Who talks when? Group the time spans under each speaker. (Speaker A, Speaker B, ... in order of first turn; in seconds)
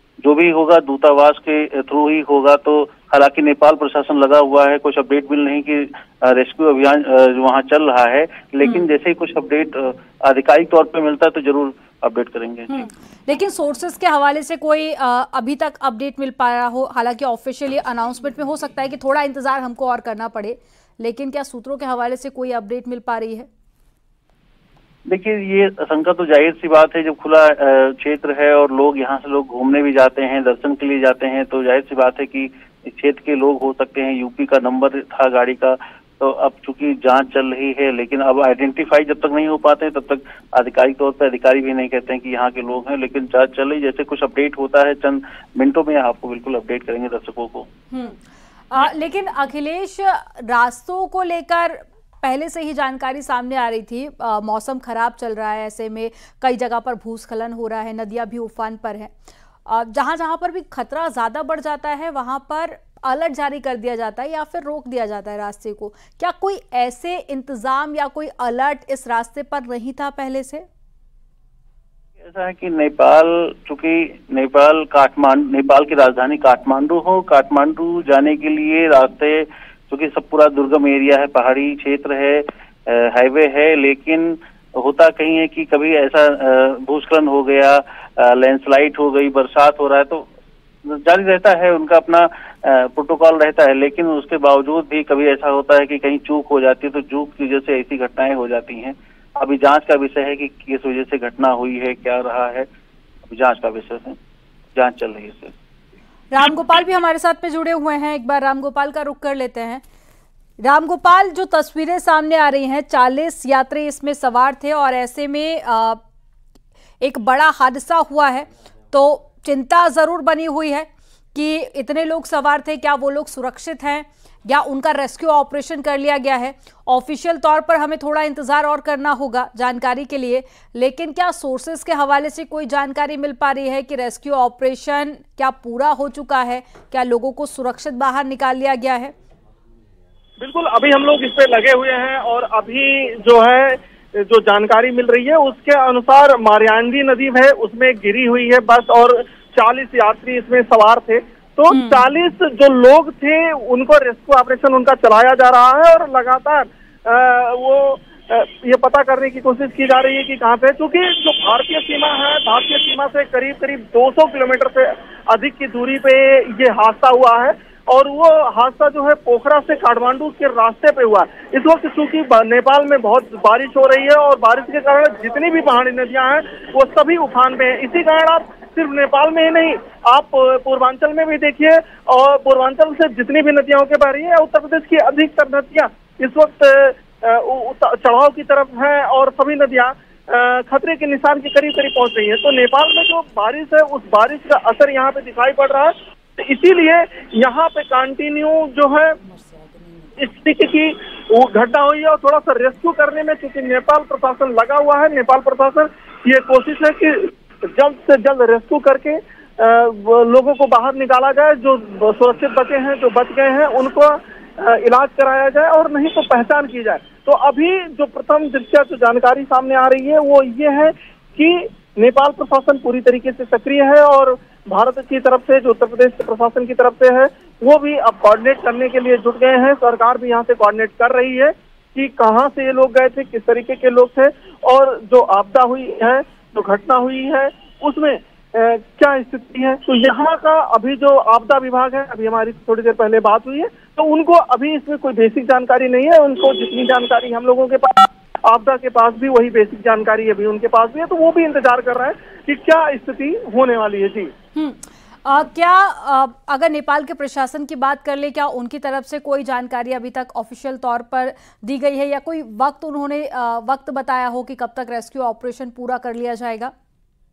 Speaker A: 0.2-12.8, 25.1-47.7, 72.2-90.3, 91.0-102.7, 103.3-104.2, 104.8-105.5
Speaker B: 8.6-8.9, 12.7-23.5, 47.9-48.2, 48.7-59.1, 59.7-70.7, 106.3-109.8, 110.6-116.0, 117.0-139.1, 151.7-152.0, 254.6-266.7
Speaker C: 140.4-199.2, 200.2-254.3